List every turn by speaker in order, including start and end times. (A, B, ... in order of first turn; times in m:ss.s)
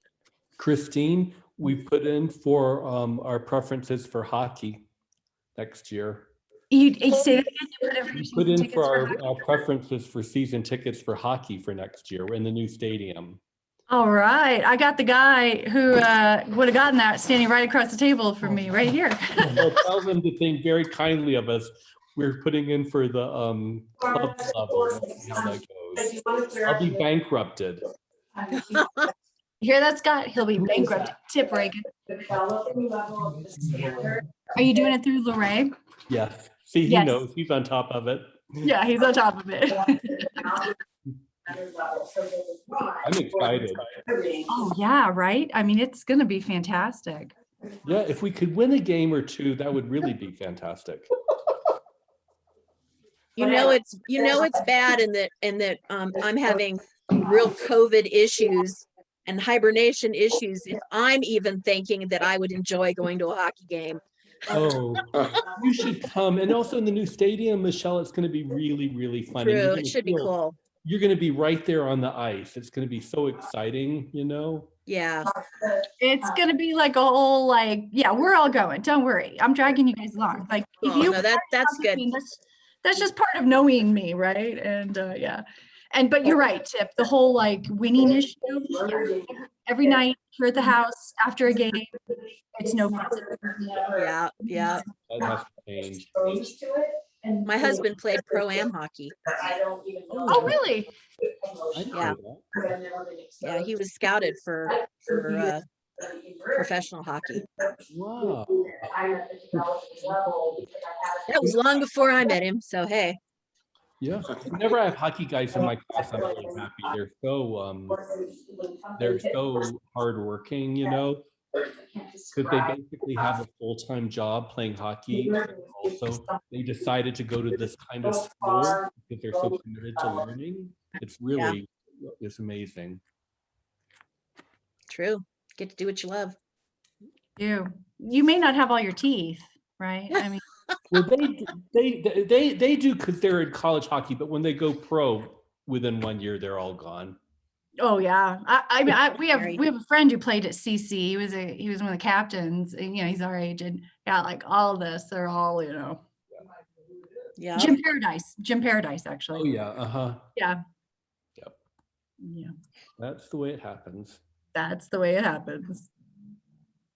0:00.6-0:04.9 A
0:05.6-0:06.3 A
0:06.7-0:09.3 B
0:08.1-0:13.4 A
0:13.9-0:19.8 B
0:18.4-0:18.8 A
0:19.4-0:27.8 A
0:28.7-0:29.0 C
0:29.6-0:32.9 B
0:34.5-0:35.7 B
0:36.1-0:38.7 A
0:36.8-0:37.2 B
0:38.6-0:40.5 B
0:43.0-0:43.8 A
0:44.5-0:47.3 B
0:47.8-0:51.1 A
0:53.4-1:04.0 C
1:04.5-1:14.7 A
1:09.4-1:10.5 C
1:14.9-1:15.3 C
1:16.0-1:32.0 B
1:20.8-1:22.1 C
1:32.5-1:33.6 B
1:33.9-1:34.8 C
1:35.1-1:36.5 A
1:37.4-1:39.5 C
1:40.1-1:40.7 A
1:40.3-1:40.9 B
1:41.7-1:42.4 A
1:41.9-1:42.2 C
1:43.4-1:45.6 C
1:46.5-1:47.6 C
1:47.9-1:48.9 A
1:49.6-1:50.1 A
1:51.3-1:53.2 C
1:54.0-1:58.0 A
1:59.0-2:01.2 A
2:02.3-2:13.0 A
2:14.9-2:16.4 C
2:17.4-2:20.4 B
2:20.9-2:27.2 A
2:27.8-2:36.0 B
2:29.2-2:29.6 C
2:37.4-2:37.8 C
2:37.6-2:39.5 B
2:39.3-2:40.3 A
2:42.2-2:42.5 B
2:43.0-2:44.2 A
2:44.5-2:45.9 B